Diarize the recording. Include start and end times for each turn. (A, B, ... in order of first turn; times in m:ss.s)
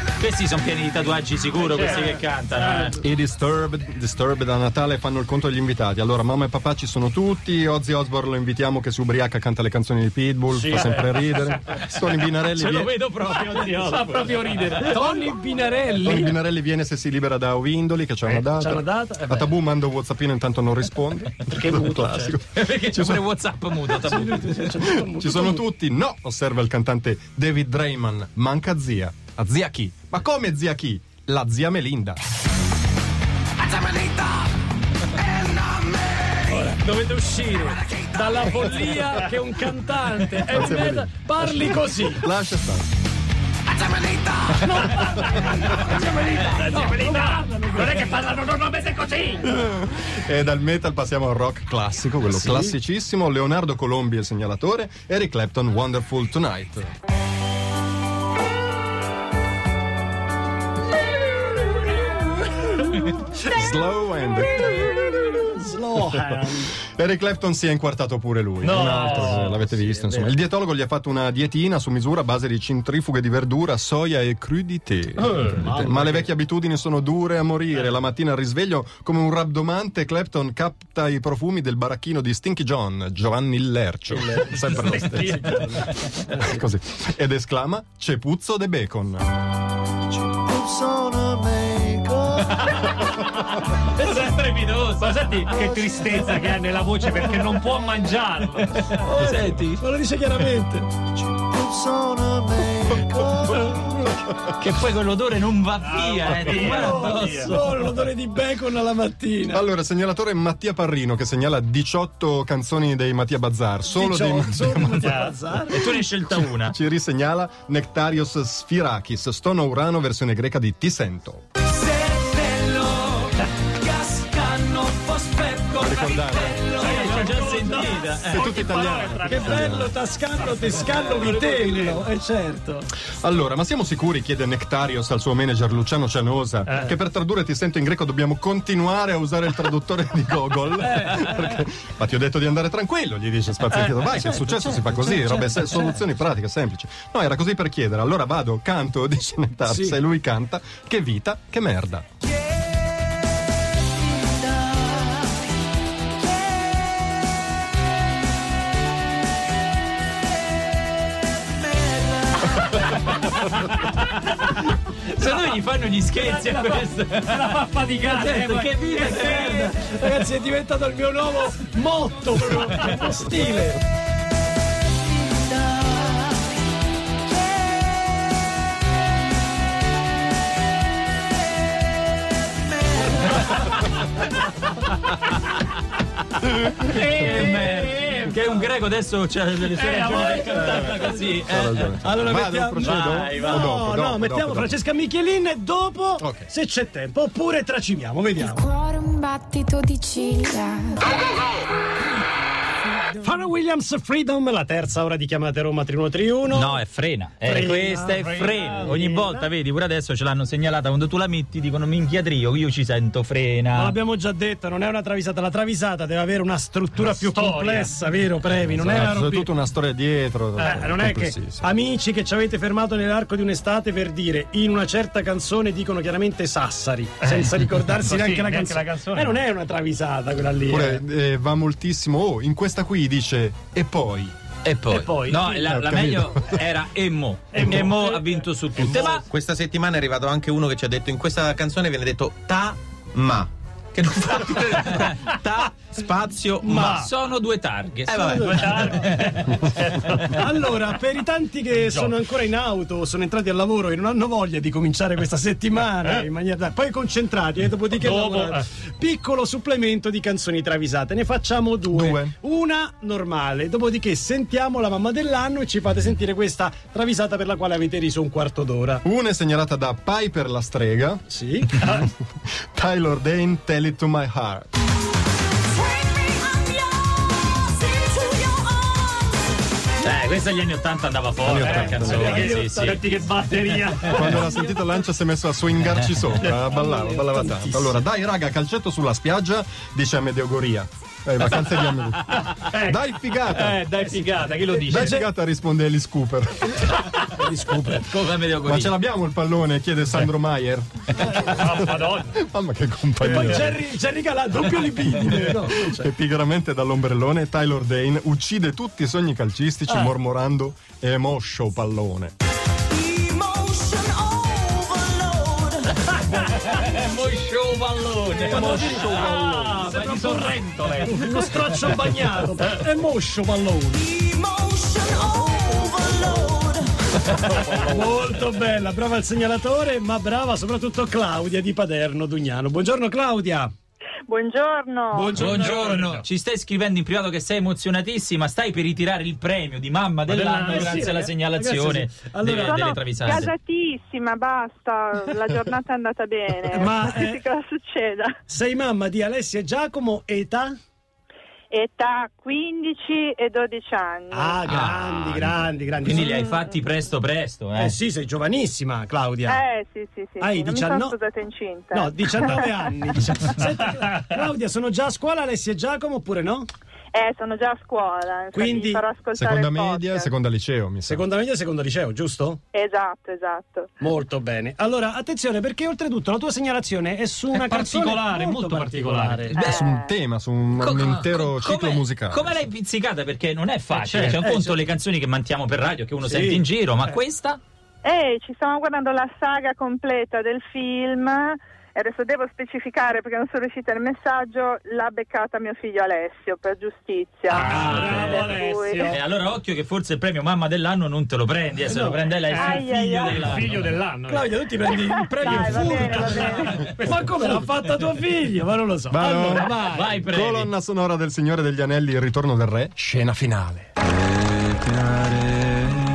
0:00.2-0:03.0 A
0:01.6-0:03.0 B
0:03.0-0:12.9 C
0:10.7-0:11.4 B
0:12.5-0:15.1 A
0:13.7-0:15.0 B
0:14.8-0:16.3 D
0:16.0-0:23.3 C
0:18.3-0:19.6 D
0:21.5-0:22.3 D
0:22.5-0:24.7 A
0:24.0-0:25.6 D
0:24.8-0:32.2 C
0:33.7-0:34.4 D
0:36.4-0:42.3 D
0:40.5-0:42.9 C
0:43.8-0:48.3 D
0:46.6-0:49.5 B
0:49.5-0:56.9 C
0:52.3-0:52.8 D
1:03.3-1:05.3 C
1:05.3-1:06.8 D
1:06.8-1:29.3 C
1:08.6-1:10.3 D
1:08.7-1:09.5 B
1:15.5-1:16.3 D
1:24.4-1:25.6 D
1:24.8-1:25.6 B
1:30.4-1:32.7 D
1:33.8-1:35.5 A
1:35.0-1:39.0 B
1:35.5-1:35.8 D
1:39.0-1:40.9 D
1:39.0-1:39.8 A
1:41.4-1:44.0 D
1:44.6-1:47.8 A
1:45.9-1:47.5 B
1:46.5-1:49.6 D
1:49.5-1:55.2 C
1:53.9-1:55.8 D
1:55.1-1:55.4 B
1:55.7-1:56.8 A
1:56.6-2:01.4 C
2:01.7-2:08.0 D
2:05.8-2:07.3 C
2:06.7-2:09.7 B
2:06.8-2:08.6 A
2:08.2-2:09.9 C
2:09.2-2:12.9 D
2:10.9-2:12.0 B
2:13.2-2:32.0 C
2:20.8-2:21.3 D
2:29.7-2:30.0 D
2:44.0-2:49.8 A
2:46.3-2:48.8 B
2:49.0-2:53.8 D
3:06.8-3:11.9 A
3:09.8-3:11.3 B
3:10.1-3:10.8 D
3:10.7-3:14.8 C
3:12.0-3:18.7 D
3:12.8-3:13.8 A
3:16.2-3:16.5 C
3:18.5-3:21.0 E
3:23.2-3:26.8 D
3:26.5-3:34.0 A
3:27.4-3:29.5 D
3:28.2-3:28.5 B
3:33.7-3:39.5 D
3:37.1-3:38.3 B
3:38.7-3:41.6 C
3:40.6-3:40.9 B
3:40.6-3:51.0 D
3:47.2-3:49.4 B
3:50.7-3:54.3 C
3:54.6-3:59.3 A
3:54.7-3:55.1 F
3:54.9-3:55.6 D
3:55.6-3:56.6 C
3:57.5-3:58.4 B
3:58.8-3:59.0 D
3:58.9-4:07.0 F
4:06.6-4:07.0 D
4:06.8-4:09.7 A
4:08.1-4:09.0 F
4:08.2-4:09.1 D
4:08.4-4:10.3 B
4:10.3-4:29.0 D
4:11.9-4:12.2 B
4:18.0-4:18.7 B
4:21.9-4:22.3 C
4:29.0-4:31.2 C
4:31.3-4:31.7 D
4:31.8-4:32.1 C
4:32.7-4:34.7 C
4:40.0-4:43.2 A
4:41.4-4:42.5 C
4:41.6-4:44.6 B
4:42.0-4:43.2 D
4:44.1-4:53.8 C
4:46.0-4:46.3 A
4:46.6-4:48.0 D
4:52.5-4:55.1 B
4:53.9-4:55.3 D
4:54.8-4:57.0 C
4:56.6-4:58.1 D
4:57.8-4:58.9 A
4:58.6-5:03.8 C
5:01.2-5:01.5 D
5:01.6-5:02.3 B
5:03.2-5:06.1 D
5:05.2-5:12.3 C
5:13.1-5:13.5 B
5:13.2-5:15.6 D
5:16.1-5:20.5 A
5:18.4-5:25.7 D
5:18.5-5:21.9 B
5:25.3-5:26.8 A
5:27.7-5:33.7 D
5:34.3-5:35.4 G
5:35.1-5:35.8 D
5:35.3-5:36.2 B
5:35.3-5:43.5 A
5:40.3-5:41.3 B
5:40.6-5:42.9 D
5:42.6-5:48.3 G
5:46.7-5:47.4 D
5:48.5-5:50.8 D
5:51.7-5:54.7 G
5:54.3-5:56.4 D
5:54.7-5:58.0 A
5:56.3-5:56.8 G
5:57.8-5:59.6 D
5:59.5-6:02.9 G
6:00.4-6:01.2 D
6:01.9-6:06.7 D
6:07.1-6:10.3 G
6:08.5-6:09.0 D
6:09.4-6:11.2 C
6:11.1-6:12.6 D
6:12.7-6:13.9 G
6:14.0-6:19.5 D
6:17.5-6:19.6 B
6:19.5-6:20.1 G
6:19.6-6:19.9 A
6:19.6-6:22.7 C
6:20.8-6:27.6 A
6:24.0-6:24.4 B
6:24.2-6:24.9 D
6:26.2-6:26.6 D
6:28.0-6:39.1 G
6:37.5-6:39.2 B
6:37.5-6:43.8 A
6:37.7-6:38.2 D
6:41.9-6:42.2 D
6:42.4-6:44.7 B
6:42.6-6:43.4 G
6:44.3-6:50.0 D
6:44.8-6:46.9 G
6:45.5-6:47.6 B
6:49.1-6:53.9 C
6:49.8-6:50.7 A